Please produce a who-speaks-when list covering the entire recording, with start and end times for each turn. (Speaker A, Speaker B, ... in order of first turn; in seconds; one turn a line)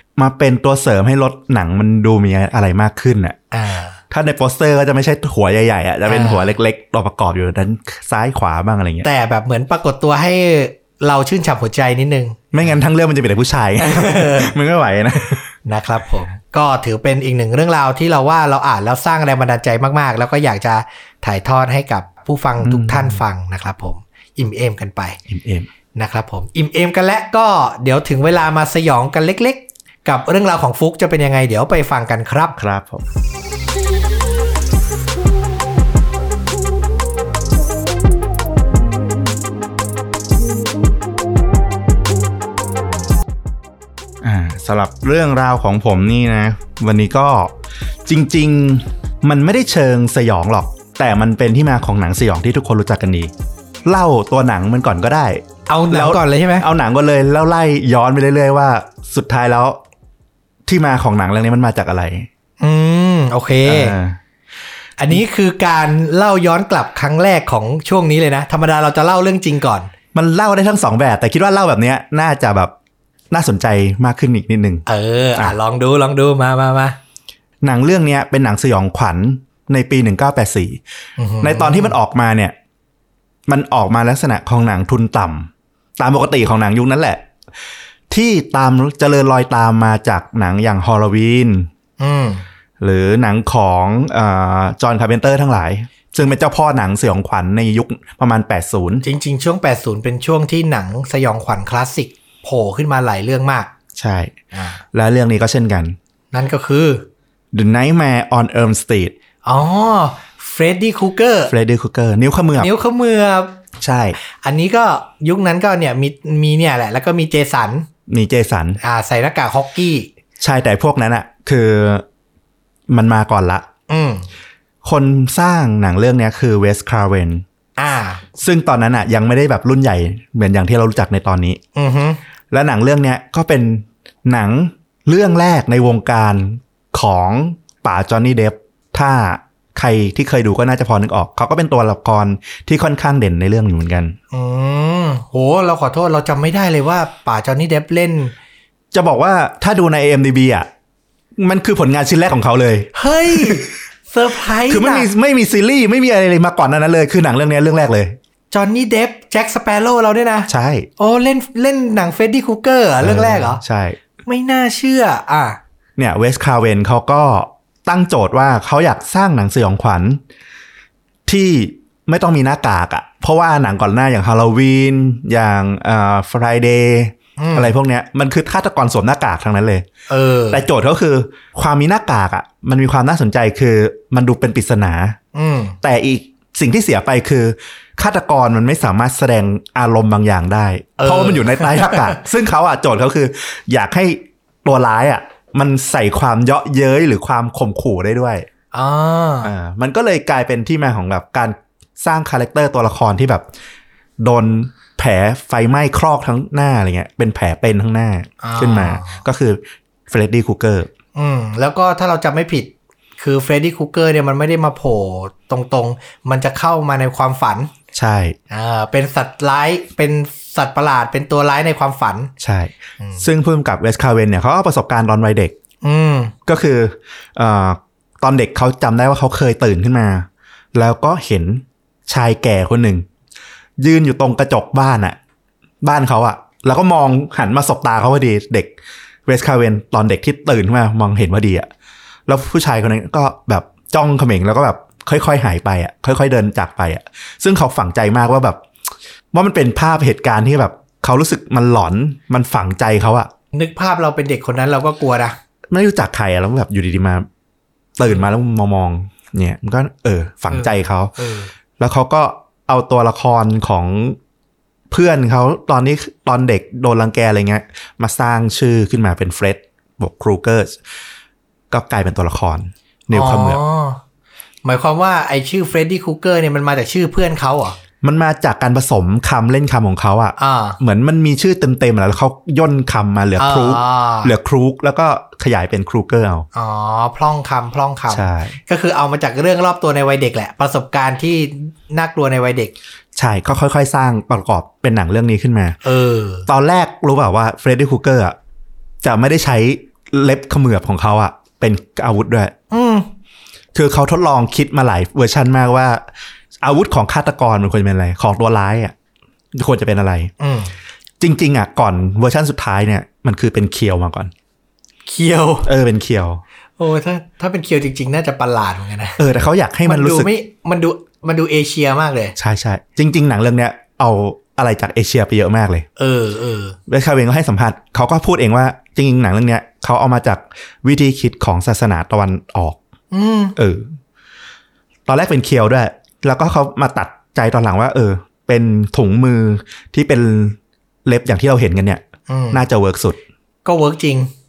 Speaker A: 0.2-3.4
Speaker B: 3.5-4.0
Speaker A: 4.1-9.1
Speaker B: 6.1-6.5
Speaker B: 9.0-12.4
Speaker A: 12.5-15.5
Speaker B: 13.8-14.5
Speaker B: 15.7-25.2
Speaker A: 22.6-23.2
Speaker A: 25.3-25.7
Speaker B: 25.9-32.5
Speaker A: 32.5-33.0
Speaker A: 44.2-47.5
Speaker A: 48.0-53.3
Speaker A: 53.8-59.8
Speaker B: 55.7-56.6
Speaker A: 60.6-62.3
Speaker B: 62.6-64.0
Speaker A: 63.6-64.2
Speaker B: 65.0-69.9
Speaker A: 70.1-72.7
Speaker A: 73.3-74.8
Speaker B: 74.9-77.0
Speaker A: 77.6-80.8
Speaker B: 81.2-82.0
Speaker A: 81.4-82.5
Speaker A: 83.5-87.2
Speaker A: 88.1-91.7
Speaker B: 92.0-92.4
Speaker A: 92.8-99.0
Speaker B: 99.0-103.7
Speaker A: 104.0-104.3
Speaker B: 104.5-104.8
Speaker A: 104.9-106.0
Speaker B: 106.3-107.0
Speaker A: 107.5-109.1
Speaker B: 109.4-111.5
Speaker A: 111.5-112.7
Speaker B: 112.6-113.6
Speaker A: 113.8-114.2
Speaker B: 114.2-117.9
Speaker A: 118.1-118.8
Speaker B: 118.8-120.1
Speaker A: 120.4-122.0
Speaker A: 122.9-123.6
Speaker B: 123.9-124.3
Speaker A: 124.8-127.4
Speaker B: 127.8-128.3
Speaker A: 128.4-131.6
Speaker B: 131.8-132.2
Speaker A: 132.5-144.1
Speaker B: 144.3-148.3
Speaker A: 148.9-150.7
Speaker A: 151.4-153.7
Speaker B: 152.9-155.1
Speaker A: 154.7-158.2
Speaker B: 158.5-163.6
Speaker A: 160.5-160.9
Speaker A: 163.0-164.0
Speaker B: 164.2-165.6
Speaker A: 166.0-170.2
Speaker A: 171.2-179.8
Speaker B: 177.4-177.7
Speaker B: 180.1-180.6
Speaker A: 180.5-185.2
Speaker B: 185.3-185.8
Speaker A: 185.8-198.5
Speaker B: 191.0-192.2
Speaker B: 198.7-199.5
Speaker A: 199.4-203.4
Speaker A: 204.2-210.9
Speaker B: 208.4-209.2
Speaker B: 211.1-217.7
Speaker A: 217.9-218.4
Speaker B: 218.5-222.3
Speaker A: 222.4-225.5
Speaker B: 223.0-223.3
Speaker B: 225.8-226.3
Speaker A: 226.5-233.1
Speaker A: 233.8-235.2
Speaker A: 235.8-238.7
Speaker A: 239.2-241.7
Speaker A: 242.3-248.6
Speaker A: 249.3-253.3
Speaker B: 253.5-255.4
Speaker A: 255.7-257.3
Speaker A: 258.0-261.1
Speaker B: 260.5-261.5
Speaker A: 261.8-264.2
Speaker A: 264.9-270.8
Speaker A: 271.7-273.6
Speaker B: 273.1-274.0
Speaker B: 274.6-277.8
Speaker A: 278.0-286.5
Speaker B: 280.4-280.8
Speaker B: 283.4-284.3
Speaker B: 286.5-292.7
Speaker A: 288.1-288.6
Speaker A: 293.1-295.8
Speaker B: 295.8-296.5
Speaker A: 296.5-298.4
Speaker A: 299.0-302.5
Speaker B: 302.7-303.1
Speaker A: 303.7-306.0
Speaker A: 306.6-308.9
Speaker A: 309.5-310.3
Speaker B: 310.4-310.7
Speaker A: 311.2-314.3
Speaker B: 315.1-315.7
Speaker A: 315.6-316.4
Speaker B: 316.8-319.2
Speaker A: 319.2-320.3
Speaker B: 319.9-322.4
Speaker A: 322.4-325.9
Speaker B: 326.0-326.8
Speaker A: 326.9-332.8
Speaker B: 333.1-333.6
Speaker A: 333.6-333.9
Speaker A: 335.1-343.2
Speaker B: 342.3-342.6
Speaker B: 343.6-344.3